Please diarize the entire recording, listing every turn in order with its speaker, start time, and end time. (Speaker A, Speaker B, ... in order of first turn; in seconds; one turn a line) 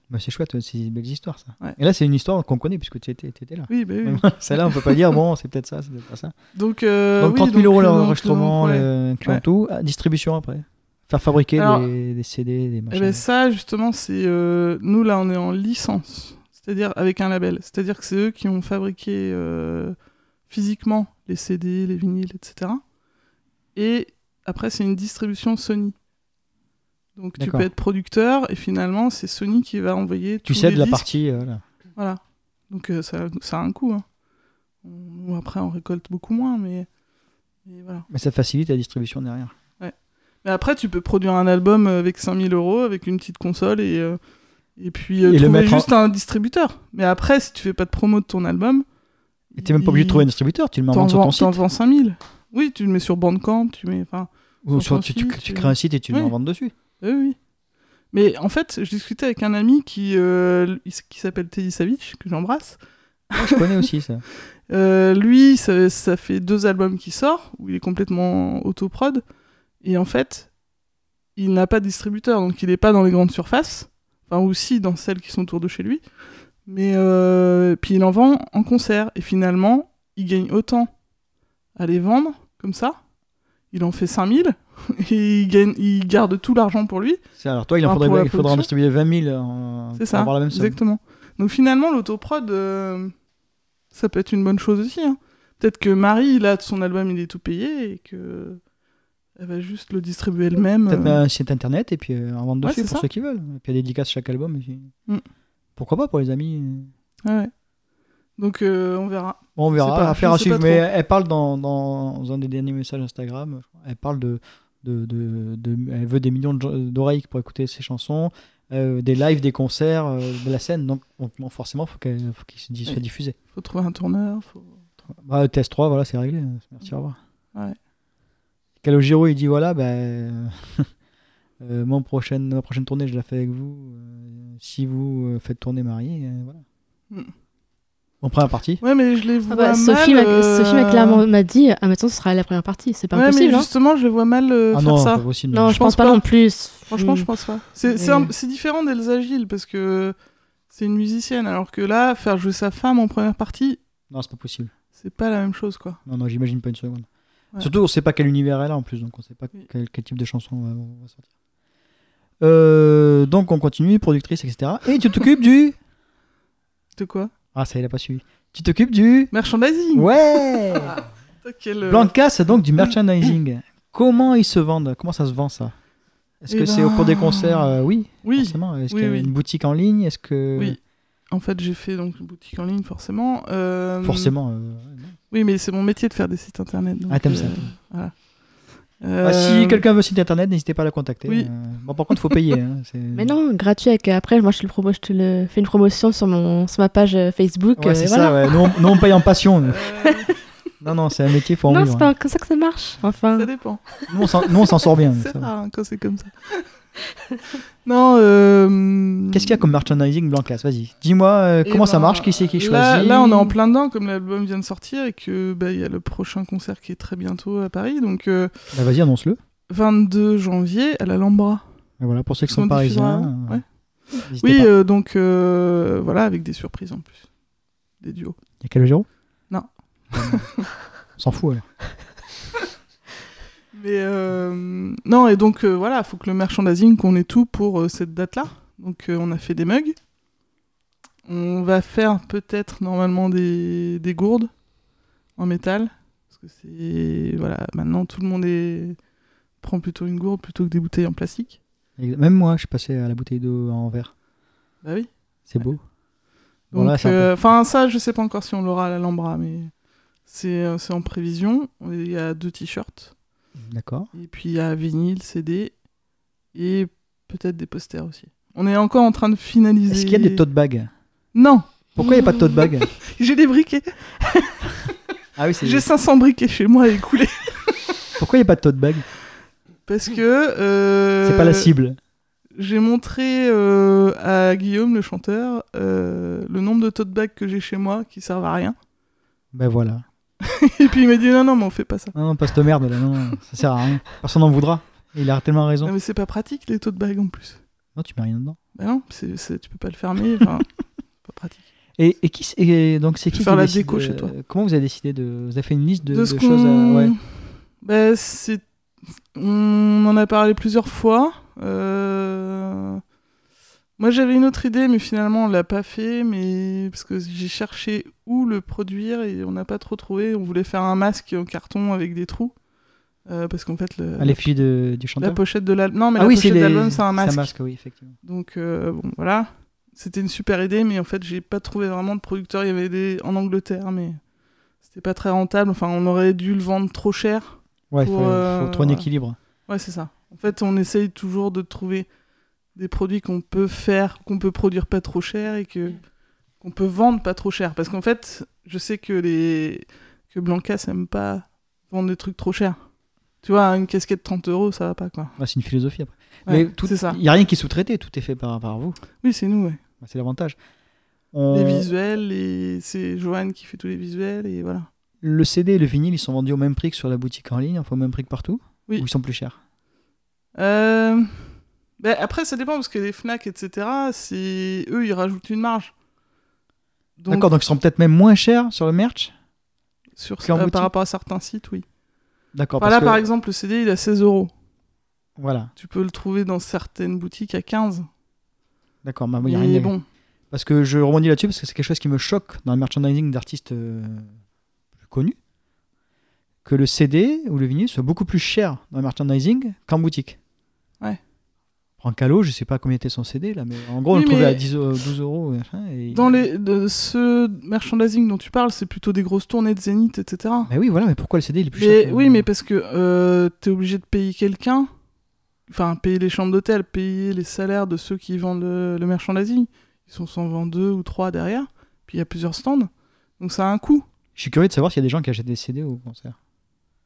Speaker A: 0.1-6.3
Speaker B: 3.7-5.0
Speaker B: 6.5-9.4
Speaker A: 7.2-13.2
Speaker B: 11.6-11.9
Speaker B: 12.9-19.9
Speaker B: 20.5-22.8
Speaker B: 23.7-25.9
Speaker B: 27.1-31.1
Speaker A: 27.4-27.7
Speaker A: 30.4-31.6
Speaker B: 31.9-34.0
Speaker B: 34.8-36.9
Speaker B: 37.6-38.1
Speaker A: 38.1-39.5
Speaker B: 39.8-44.2
Speaker B: 44.8-48.8
Speaker A: 45.2-45.9
Speaker B: 49.5-50.2
Speaker A: 49.6-51.6
Speaker B: 50.9-56.3
Speaker A: 54.6-56.7
Speaker B: 57.0-57.4
Speaker B: 58.1-62.8
Speaker B: 63.3-63.6
Speaker A: 63.3-64.2
Speaker B: 64.7-69.2
Speaker B: 69.8-70.5
Speaker B: 71.3-76.0
Speaker B: 76.7-80.9
Speaker B: 81.8-83.0
Speaker B: 83.7-87.2
Speaker A: 87.4-90.8
Speaker B: 87.8-88.7
Speaker B: 90.0-93.1
Speaker B: 93.9-98.6
Speaker B: 99.3-101.2
Speaker A: 100.9-104.9
Speaker B: 102.6-103.0
Speaker A: 105.8-106.9
Speaker B: 107.2-107.5
Speaker B: 108.4-110.8
Speaker A: 109.6-123.3
Speaker B: 123.5-124.7
Speaker A: 125.2-127.2
Speaker A: 128.8-130.9
Speaker A: 131.6-136.6
Speaker A: 138.2-138.8
Speaker B: 138.8-141.2
Speaker C: 139.5-143.7
Speaker B: 143.1-146.2
Speaker A: 144.7-145.8
Speaker C: 145.5-147.3
Speaker B: 146.9-150.1
Speaker C: 147.9-148.3
Speaker B: 150.7-153.8
Speaker A: 154.1-154.7
Speaker B: 154.9-156.0
Speaker A: 156.1-157.1
Speaker A: 157.6-161.2
Speaker A: 162.4-165.8
Speaker B: 167.0-167.3
Speaker A: 167.5-169.3
Speaker B: 169.3-170.9
Speaker A: 169.9-171.0
Speaker B: 171.4-172.1
Speaker A: 171.8-175.7
Speaker A: 176.4-180.8
Speaker B: 176.5-177.7
Speaker B: 178.2-179.3
Speaker B: 181.3-184.3
Speaker A: 184.0-185.2
Speaker B: 185.3-188.1
Speaker A: 187.1-187.7
Speaker B: 189.0-189.8
Speaker A: 189.2-193.3
Speaker C: 193.1-198.8
Speaker A: 197.8-199.9
Speaker B: 199.7-200.3
Speaker A: 200.8-202.1
Speaker C: 201.7-203.5
Speaker B: 203.3-204.0
Speaker A: 204.1-205.5
Speaker B: 204.6-206.7
Speaker B: 207.8-209.6
Speaker A: 209.3-213.6
Speaker B: 211.6-218.5
Speaker A: 218.7-219.4
Speaker B: 219.7-221.6
Speaker A: 222.0-223.6
Speaker B: 222.5-223.6
Speaker A: 224.2-224.7
Speaker B: 224.4-227.2
Speaker B: 228.0-228.3
Speaker A: 228.6-229.1
Speaker B: 229.5-230.7
Speaker A: 230.1-230.5
Speaker A: 231.2-231.6
Speaker B: 233.7-240.0
Speaker B: 241.2-244.5
Speaker B: 245.4-249.0
Speaker B: 249.6-251.6
Speaker A: 252.0-254.1
Speaker B: 254.8-255.1
Speaker A: 255.5-255.8
Speaker B: 256.7-259.7
Speaker A: 256.7-257.3
Speaker B: 260.3-263.1
Speaker A: 263.6-264.1
Speaker B: 264.1-265.8
Speaker B: 266.5-270.4
Speaker A: 269.9-270.9
Speaker B: 271.3-274.8
Speaker A: 271.9-272.9
Speaker A: 275.4-275.9
Speaker B: 275.6-277.9
Speaker A: 278.2-279.0
Speaker B: 279.9-281.7
Speaker A: 281.2-282.0
Speaker B: 282.5-288.8
Speaker A: 289.5-290.0
Speaker B: 290.4-292.1
Speaker A: 292.1-295.9
Speaker B: 295.8-297.6
Speaker A: 297.9-298.6
Speaker B: 298.8-301.6
Speaker A: 302.0-307.1
Speaker B: 303.3-304.3
Speaker B: 306.1-307.2
Speaker B: 307.8-308.6
Speaker B: 309.3-313.0
Speaker B: 314.0-322.5
Speaker B: 323.2-324.4
Speaker A: 324.2-325.4
Speaker B: 325.2-327.5
Speaker A: 326.1-328.1
Speaker B: 328.2-334.2
Speaker B: 334.8-339.1
Speaker A: 337.9-339.4
Speaker B: 339.7-342.1
Speaker B: 342.7-346.0
Speaker B: 346.6-352.8
Speaker B: 353.4-355.3
Speaker A: 355.4-359.0
Speaker B: 356.5-357.2
Speaker B: 359.2-359.8
Speaker A: 360.0-360.6
Speaker A: 361.3-361.9
Speaker B: 361.5-364.9
Speaker A: 365.2-369.6
Speaker B: 370.5-375.9
Speaker B: 377.2-377.5
Speaker A: 377.3-379.3
Speaker B: 380.1-381.9
Speaker A: 380.4-380.9
Speaker A: 382.5-383.3
Speaker B: 382.8-384.5
Speaker A: 385.4-385.7
Speaker B: 385.8-388.1
Speaker A: 389.0-389.9
Speaker B: 389.4-390.0
Speaker A: 390.5-394.3
Speaker A: 395.0-395.4
Speaker A: 396.6-400.4
Speaker A: 402.0-406.4
Speaker B: 404.1-404.6
Speaker B: 406.1-410.7
Speaker A: 410.7-412.5
Speaker B: 411.8-414.9
Speaker B: 415.7-424.0
Speaker A: 424.4-426.4